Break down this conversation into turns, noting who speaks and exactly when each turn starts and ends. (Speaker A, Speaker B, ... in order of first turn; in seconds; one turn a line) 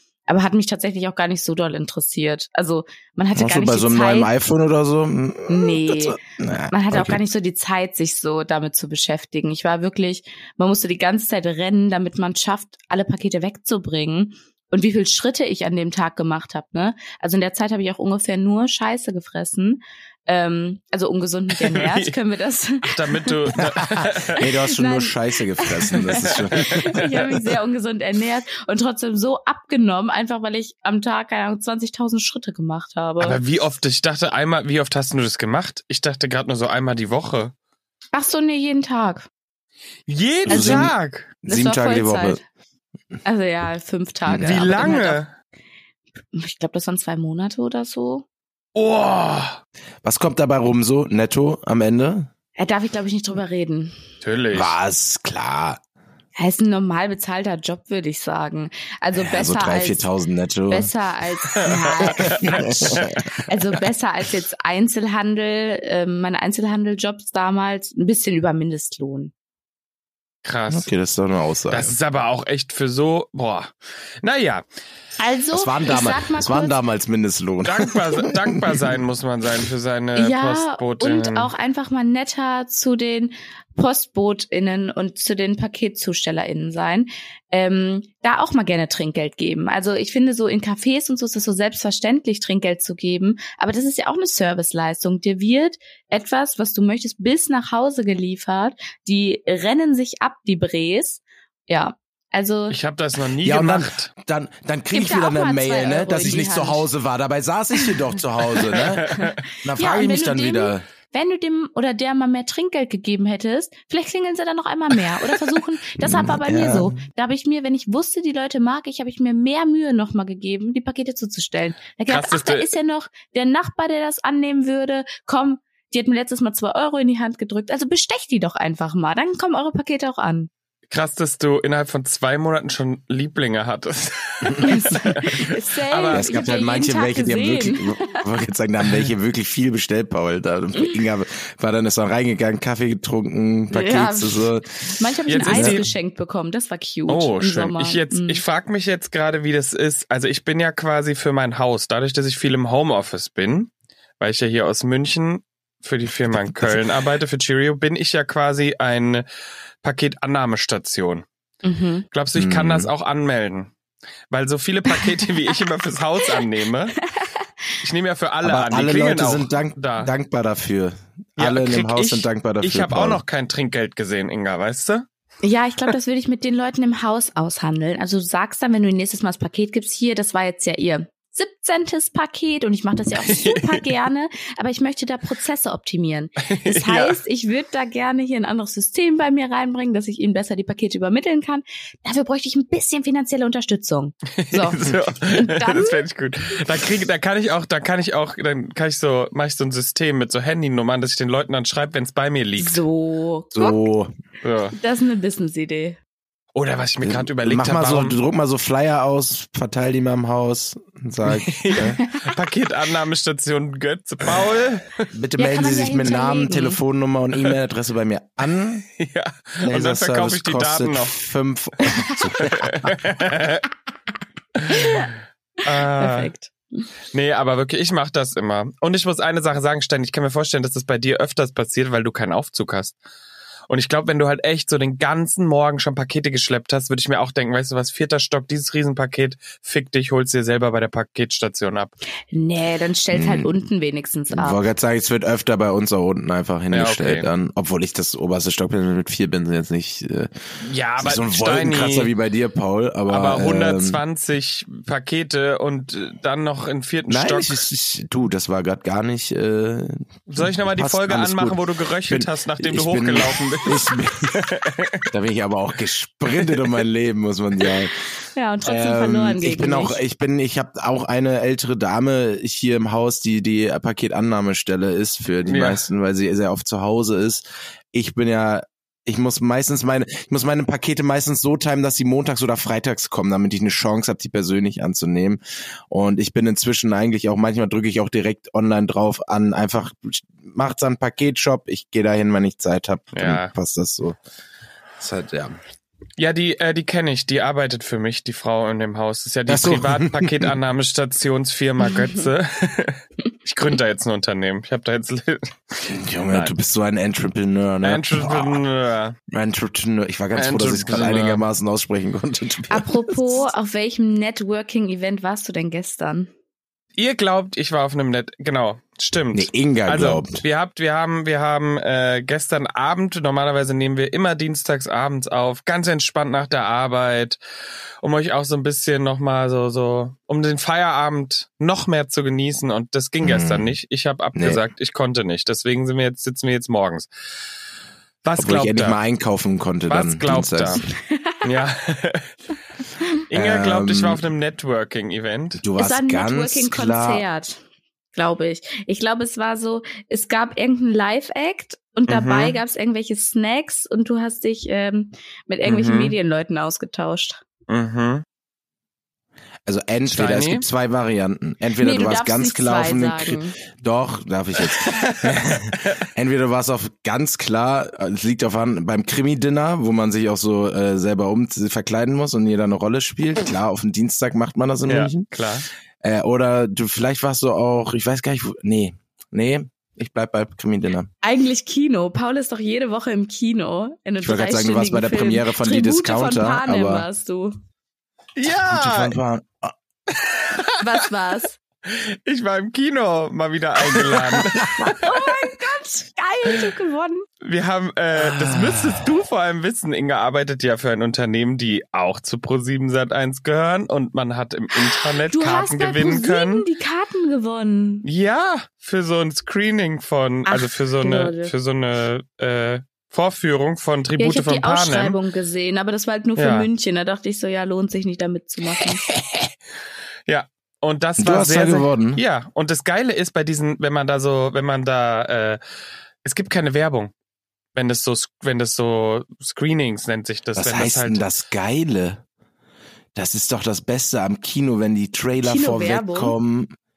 Speaker A: 0.3-4.3
Speaker B: 3.3-7.2
Speaker A: 5.5-6.2
Speaker A: 6.7-23.4
Speaker C: 21.6-22.1
Speaker C: 22.9-24.4
Speaker B: 23.6-27.6
Speaker A: 24.4-33.4
Speaker C: 26.2-27.0
Speaker C: 33.2-37.5
Speaker A: 38.1-39.3
Speaker C: 40.1-41.3
Speaker A: 40.5-40.9
Speaker B: 40.5-42.4
Speaker A: 41.5-42.4
Speaker A: 43.2-45.2
Speaker B: 44.3-44.6
Speaker C: 44.4-45.3
Speaker A: 46.3-48.2
Speaker C: 48.8-49.6
Speaker B: 50.0-52.3
Speaker A: 52.6-54.0
Speaker C: 54.2-54.7
Speaker B: 54.5-55.8
Speaker A: 56.4-60.1
Speaker B: 59.1-60.9
Speaker A: 60.7-69.3
Speaker C: 61.5-63.2
Speaker B: 62.0-63.8
Speaker C: 70.5-70.9
Speaker B: 70.7-72.0
Speaker C: 71.7-74.7
Speaker A: 75.2-76.8
Speaker B: 75.5-79.0
Speaker C: 77.7-81.5
Speaker A: 80.2-102.8
Speaker C: 102.7-104.1
Speaker B: 103.4-110.8
Speaker A: 104.9-106.9
Speaker A: 108.5-130.5
Speaker C: 108.8-109.4
Speaker B: 116.0-117.0
Speaker C: 122.1-122.7
Speaker C: 130.9-136.3
Speaker A: 134.6-138.3
Speaker B: 136.1-144.9
Speaker A: 143.7-148.4
Speaker C: 145.3-145.9
Speaker B: 145.4-145.9
Speaker C: 147.1-159.2
Speaker B: 156.3-156.8
Speaker C: 159.8-161.2
Speaker A: 161.6-162.1
Speaker C: 162.1-163.7
Speaker B: 162.3-162.9
Speaker C: 164.3-167.0
Speaker A: 164.9-165.5
Speaker C: 167.8-170.1
Speaker B: 168.4-173.2
Speaker C: 171.4-175.1
Speaker A: 175.4-196.0
Speaker C: 183.2-183.8
Speaker C: 186.4-187.2
Speaker C: 194.3-202.8
Speaker A: 202.6-203.8
Speaker B: 203.5-204.1
Speaker C: 204.4-204.8
Speaker A: 204.8-206.0
Speaker C: 206.5-208.2
Speaker B: 207.0-212.0
Speaker C: 211.3-215.1
Speaker B: 215.1-218.9
Speaker A: 215.4-216.8
Speaker C: 219.0-221.2
Speaker B: 219.6-222.9
Speaker C: 222.4-223.7
Speaker C: 224.6-226.3
Speaker A: 224.7-225.1
Speaker A: 225.7-226.9
Speaker C: 227.1-233.0
Speaker C: 233.7-241.9
Speaker A: 242.3-244.6
Speaker B: 243.1-243.5
Speaker B: 244.3-250.3
Speaker C: 246.7-247.3
Speaker C: 250.6-252.1
Speaker B: 251.0-254.0
Speaker C: 253.1-257.6
Speaker B: 257.1-264.4
Speaker C: 260.3-265.0
Speaker B: 265.1-268.0
Speaker A: 268.4-270.0
Speaker B: 268.6-294.2
Speaker C: 275.5-275.8
Speaker C: 293.1-293.5
Speaker B: 295.0-295.6
Speaker C: 296.2-305.5
Speaker B: 299.5-300.5
Speaker B: 305.9-308.6
Speaker C: 307.8-309.2
Speaker B: 309.3-313.3
Speaker C: 310.4-311.4
Speaker A: 312.7-316.3
Speaker C: 317.0-327.4
Speaker B: 319.3-320.4
Speaker C: 328.0-337.1
Speaker B: 333.2-333.8
Speaker B: 334.4-334.6
Speaker C: 338.2-339.0
Speaker B: 338.4-340.8
Speaker C: 339.9-340.8
Speaker A: 341.0-341.4
Speaker C: 341.4-342.4
Speaker C: 343.3-345.6
Speaker B: 343.3-344.2
Speaker B: 345.6-347.2
Speaker A: 345.8-347.6
Speaker A: 348.1-357.4
Speaker C: 352.1-352.6
Speaker C: 355.6-356.2
Speaker C: 357.7-358.2
Speaker B: 359.7-375.3
Speaker C: 360.1-360.6
Speaker A: 361.8-363.6
Speaker C: 364.7-365.3
Speaker C: 374.9-375.7
Speaker B: 376.0-381.1
Speaker A: 381.2-387.6
Speaker B: 384.2-387.1
Speaker C: 388.4-389.2
Speaker B: 388.7-389.7
Speaker C: 390.1-390.8
Speaker A: 390.8-391.6
Speaker C: 391.9-395.4
Speaker B: 394.0-394.7
Speaker A: 394.8-397.2
Speaker C: 397.4-406.6
Speaker B: 398.2-399.1
Speaker A: 405.3-408.1
Speaker C: 408.0-415.2
Speaker A: 410.5-411.5
Speaker A: 414.2-419.1
Speaker C: 416.4-416.7
Speaker C: 420.3-425.6
Speaker B: 421.2-422.2
Speaker C: 426.2-427.1
Speaker C: 427.8-431.2
Speaker B: 430.6-432.2
Speaker B: 433.1-436.7
Speaker A: 435.4-436.4